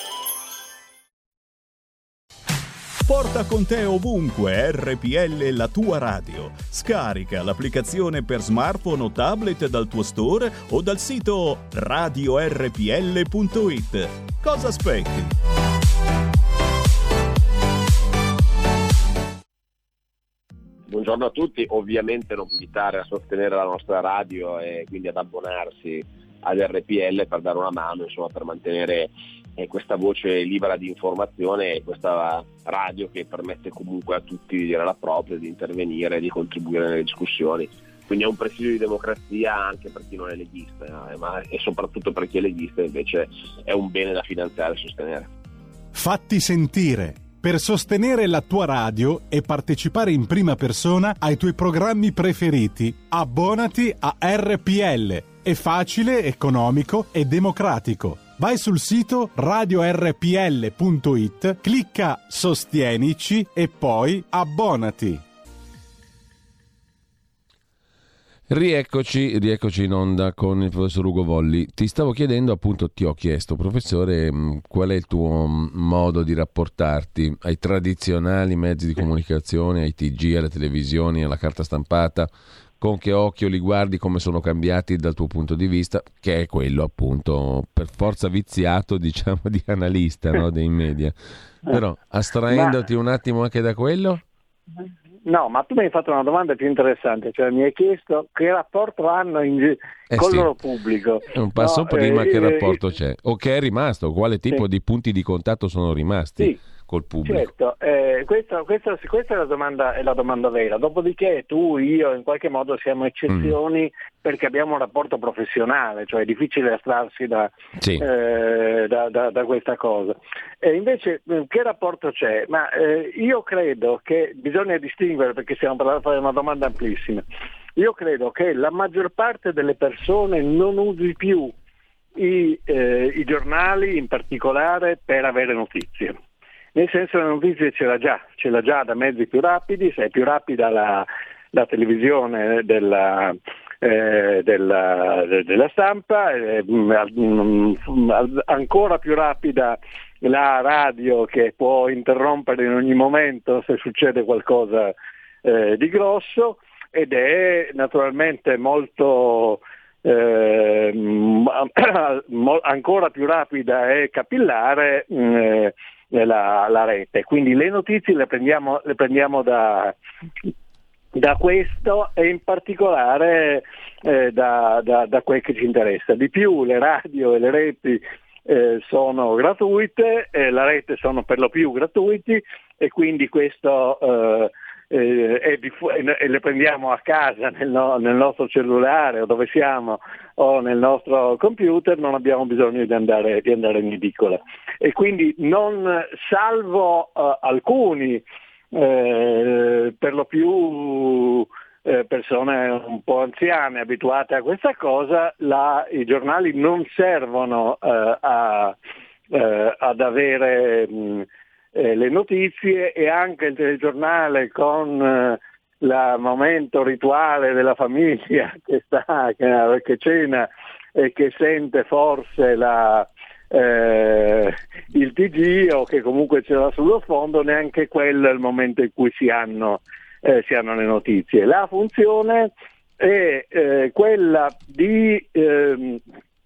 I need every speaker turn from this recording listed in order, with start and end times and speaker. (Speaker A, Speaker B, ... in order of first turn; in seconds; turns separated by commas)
Speaker A: 3.1-15.3, Speaker B: 20.9-45.3, Speaker C: 45.9-65.2, Speaker D: 68.5-91.1, Speaker D: 91.7-94.2, Speaker E: 92.5-92.8, Speaker E: 95.2-102.8, Speaker D: 100.1-100.5, Speaker D: 101.3-107.5, Speaker E: 107.3-127.2, Speaker D: 117.8-118.1, Speaker E: 127.8-131.5, Speaker E: 132.2-136.2, Speaker E: 136.8-154.9, Speaker E: 155.4-170.0, Speaker E: 171.1-208.8, Speaker E: 209.3-236.0